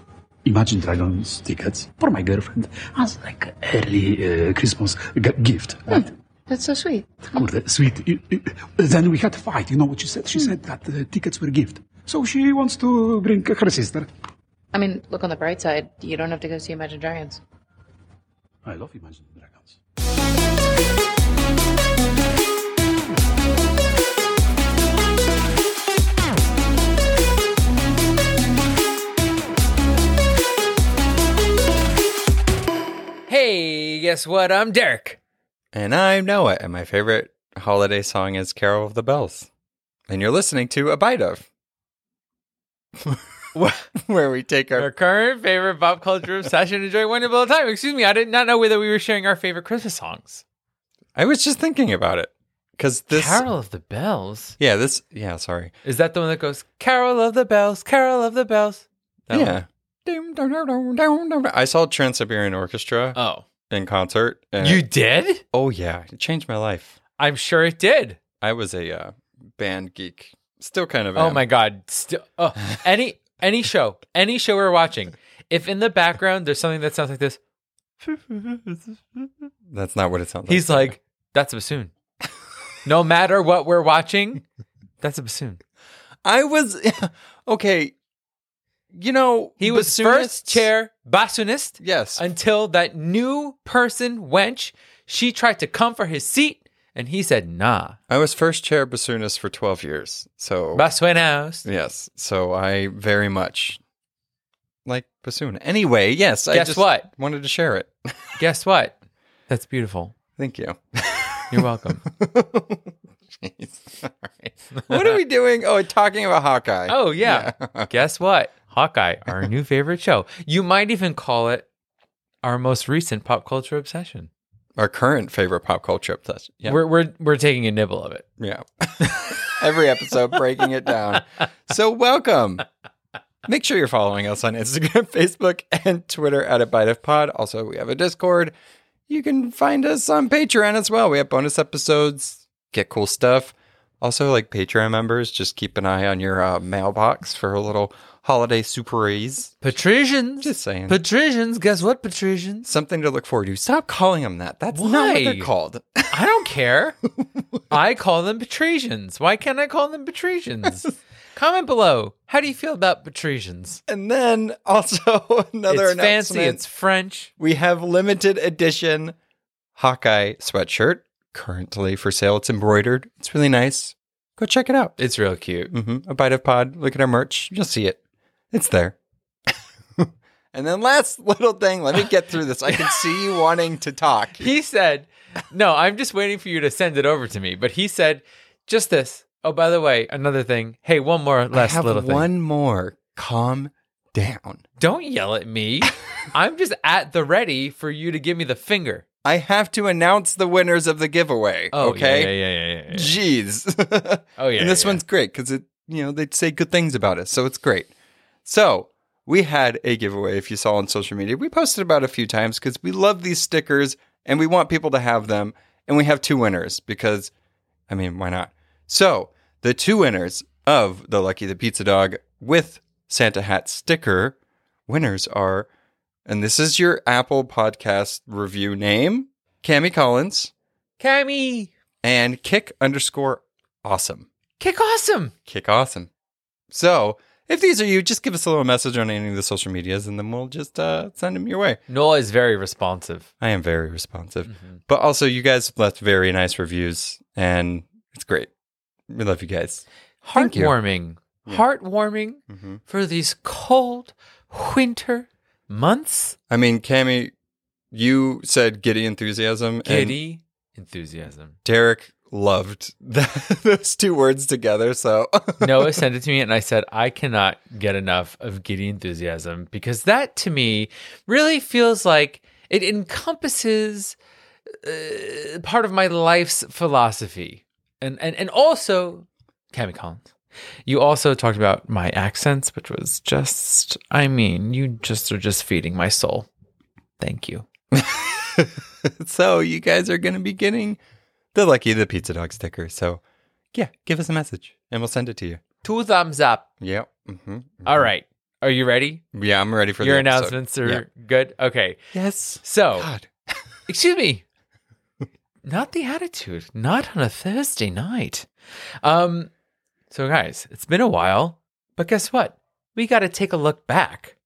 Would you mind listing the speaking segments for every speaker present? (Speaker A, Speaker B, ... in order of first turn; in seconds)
Speaker A: 0.4-6.1, 7.3-14.1, 18.6-19.8
Speaker B: 5.9-7.5, 14.7-17.4
Speaker C: 33.3-35.2, 43.5-43.9, 44.7-50.4, 53.1-54.6, 55.8-59.6, 63.1-63.4, 64.6-65.4, 67.2-68.2, 71.1-77.4, 80.5-81.9, 82.8-84.4, 85.0-85.6, 89.6-98.0, 100.7-101.7, 106.5-107.1, 108.4-109.0, 109.5-110.1, 111.5-112.0, 114.8-115.2, 116.9-121.7, 122.4-124.3, 126.6-128.2, 129.0-129.4, 149.6-152.7, 154.7-155.5, 156.1-157.0, 157.7-163.8, 165.7-167.3, 175.0-175.7, 184.4-192.3, 194.8-199.0, 201.7-203.2, 204.4-205.0, 231.0-231.7, 234.6-235.3, 241.9-243.3, 244.5-244.8, 250.2-256.4, 259.8-261.6, 265.6-274.2, 274.8-280.3, 280.9-286.5, 287.2-287.6, 295.8-296.7, 297.8-299.2, 300.0-302.0, 302.6-303.1, 303.9-304.4, 305.6-308.5, 309.0-309.5, 310.1-314.3
Speaker D: 35.7-39.5, 40.1-41.5, 43.9-44.9, 51.1-53.4, 54.6-55.7, 59.3-63.2, 63.7-64.8, 65.5-66.9, 68.4-71.4, 79.7-80.9, 86.2-87.9, 88.9-90.7, 91.8-92.2, 98.1-100.9, 101.6-103.8, 104.8-108.4, 110.4-117.9, 124.8-126.8, 128.4-132.6, 133.4-138.5, 139.1-149.6, 150.4-151.0, 152.7-156.3, 157.2-157.4, 163.9-166.6, 167.4-169.2, 169.8-174.9, 175.7-178.0, 178.5-178.9, 179.5-184.5, 191.5-194.6, 199.2-202.3, 202.9-207.9, 208.4-217.3, 217.9-224.3, 224.9-225.7, 226.2-230.5, 232.0-234.3, 235.4-236.1, 236.7-241.8, 243.4-248.5, 249.1-250.7, 252.5-252.8, 256.5-257.3, 257.9-260.2, 261.6-266.0, 287.9-291.0, 291.5-293.2, 293.7-295.6, 296.8-298.1, 299.3-301.0, 302.1-303.6